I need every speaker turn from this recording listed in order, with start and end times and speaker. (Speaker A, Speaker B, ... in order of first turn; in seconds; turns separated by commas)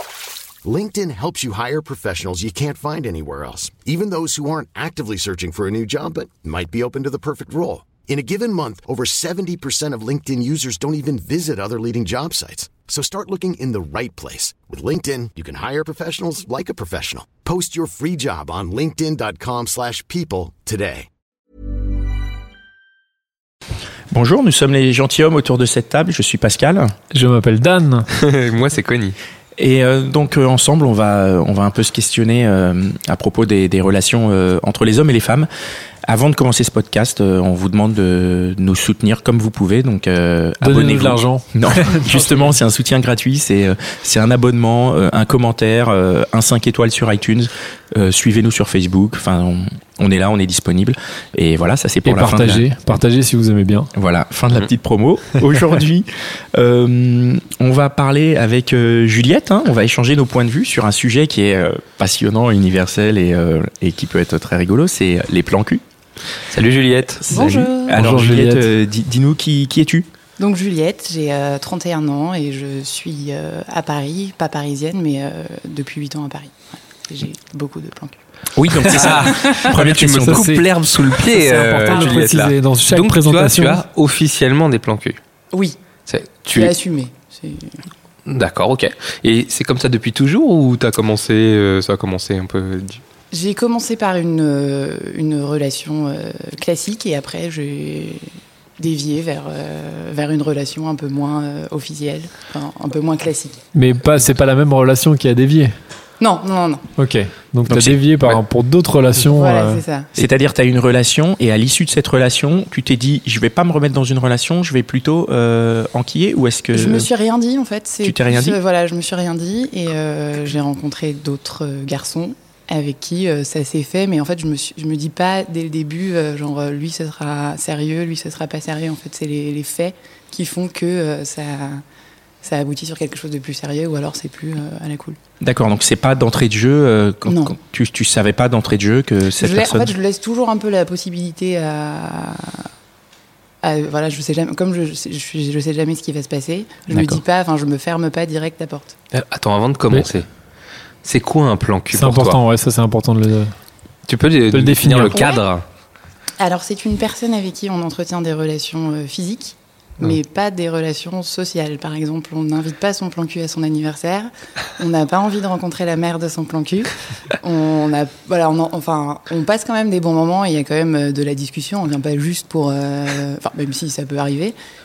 Speaker A: 0.6-21.1, Speaker B: 24.1-26.9, Speaker C: 27.1-28.1, Speaker D: 28.1-29.2, Speaker B: 29.6-35.5, Speaker B: 36.0-52.7, Speaker C: 40.6-42.4, Speaker C: 52.0-53.9, Speaker B: 53.9-65.8, Speaker D: 66.5-67.2, Speaker B: 67.2-70.1, Speaker E: 67.3-68.0, Speaker C: 67.9-68.7, Speaker E: 70.4-78.2, Speaker B: 78.5-80.6, Speaker D: 78.9-85.2, Speaker C: 80.2-83.8, Speaker E: 85.5-85.8, Speaker D: 86.1-86.7, Speaker E: 86.5-87.8, Speaker D: 88.2-93.0, Speaker E: 93.3-103.6, Speaker C: 103.7-105.7, Speaker E: 106.2-106.8, Speaker C: 107.0-109.8, Speaker B: 107.7-108.4, Speaker E: 109.3-110.1, Speaker B: 110.2-117.1, Speaker E: 116.7-131.8, Speaker B: 118.0-118.6, Speaker E: 132.4-135.2, Speaker B: 135.4-139.9, Speaker E: 137.2-137.6, Speaker E: 139.4-142.7, Speaker E: 143.6-148.9, Speaker B: 146.9-147.2, Speaker D: 149.1-150.2, Speaker D: 151.0-152.4, Speaker C: 151.9-153.5, Speaker D: 154.1-155.6, Speaker C: 154.5-155.3, Speaker E: 155.1-155.4, Speaker E: 156.4-174.5